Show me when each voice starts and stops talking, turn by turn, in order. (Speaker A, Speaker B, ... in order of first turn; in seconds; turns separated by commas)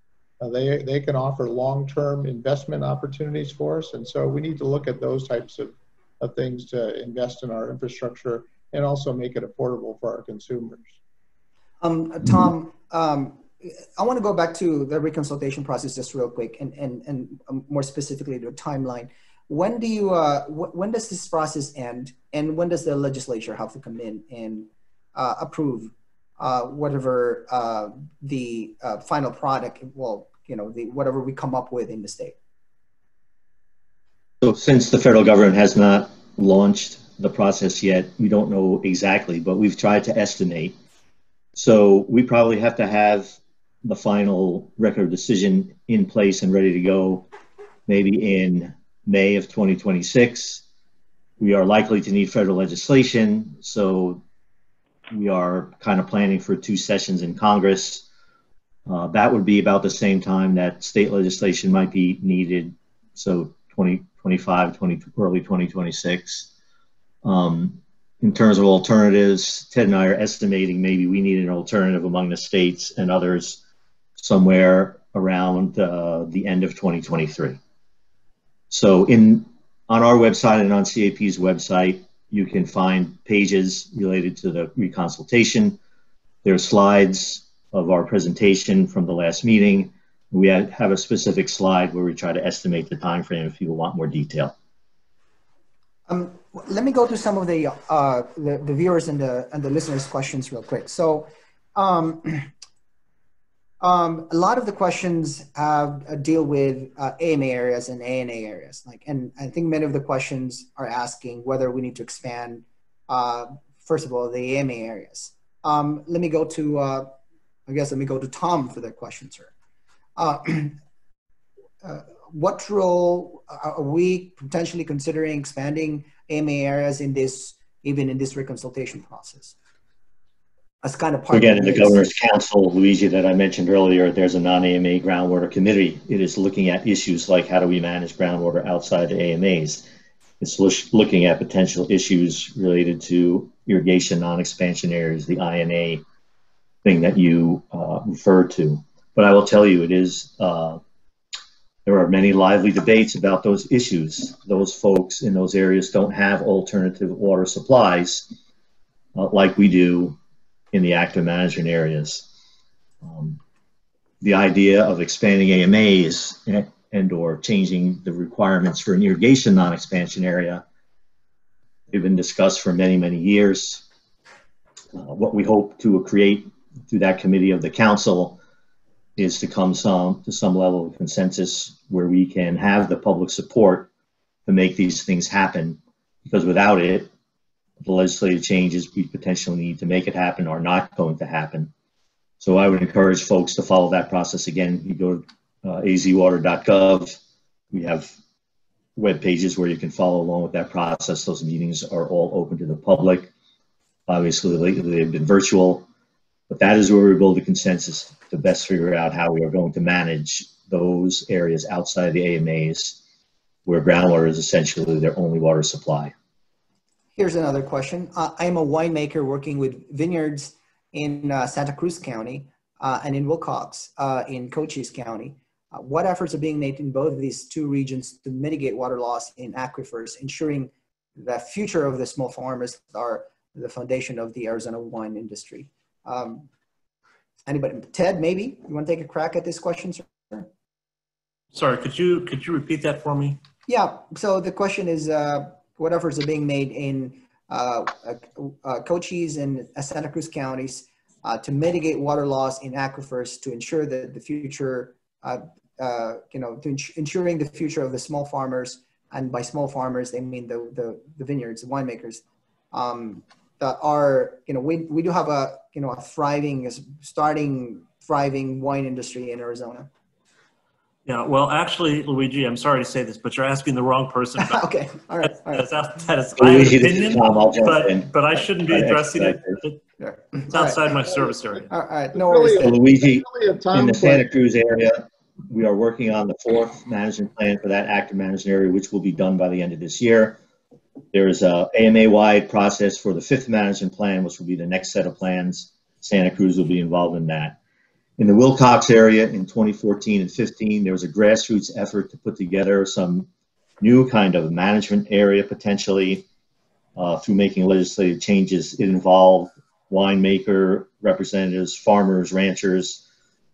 Speaker A: 0.4-10.9, Speaker B: 11.8-32.4, Speaker C: 34.4-40.8, Speaker C: 41.5-47.3, Speaker C: 47.9-50.6, Speaker C: 51.4-54.2, Speaker C: 55.1-58.0, Speaker C: 58.9-66.5, Speaker C: 67.2-73.6, Speaker C: 74.2-77.6, Speaker C: 78.7-85.8, Speaker C: 86.4-94.5, Speaker B: 96.1-102.5, Speaker B: 103.8-117.1, Speaker B: 117.7-119.5, Speaker B: 120.2-120.8, Speaker B: 121.8-129.6, Speaker B: 130.8-132.1, Speaker C: 131.3-139.9, Speaker C: 140.4-146.0, Speaker C: 146.8-150.8, Speaker C: 151.8-158.3, Speaker C: 159.2-160.2, Speaker C: 160.7-162.3, Speaker C: 163.0-163.4, Speaker C: 164.2-170.7, Speaker C: 171.9-173.8, Speaker C: 174.9-178.4, Speaker C: 179.2-183.9, Speaker C: 184.5-187.1, Speaker C: 187.8-191.7, Speaker C: 192.4-197.2, Speaker C: 197.7-198.1, Speaker C: 199.0-203.3, Speaker C: 204.1-205.9, Speaker C: 206.5-213.0, Speaker C: 213.7-216.1, Speaker B: 217.2-236.5, Speaker B: 237.5-240.5, Speaker D: 241.5-243.4, Speaker B: 243.7-269.9, Speaker D: 271.1-274.6, Speaker B: 274.4-275.7, Speaker D: 275.2-279.8, Speaker C: 276.4-279.6, Speaker B: 280.0-280.8, Speaker D: 280.4-281.7, Speaker B: 281.7-282.8, Speaker A: 282.1-284.3, Speaker C: 282.6-290.4, Speaker C: 291.1-297.6, Speaker C: 298.2-303.3, Speaker C: 303.8-306.3, Speaker C: 307.0-313.0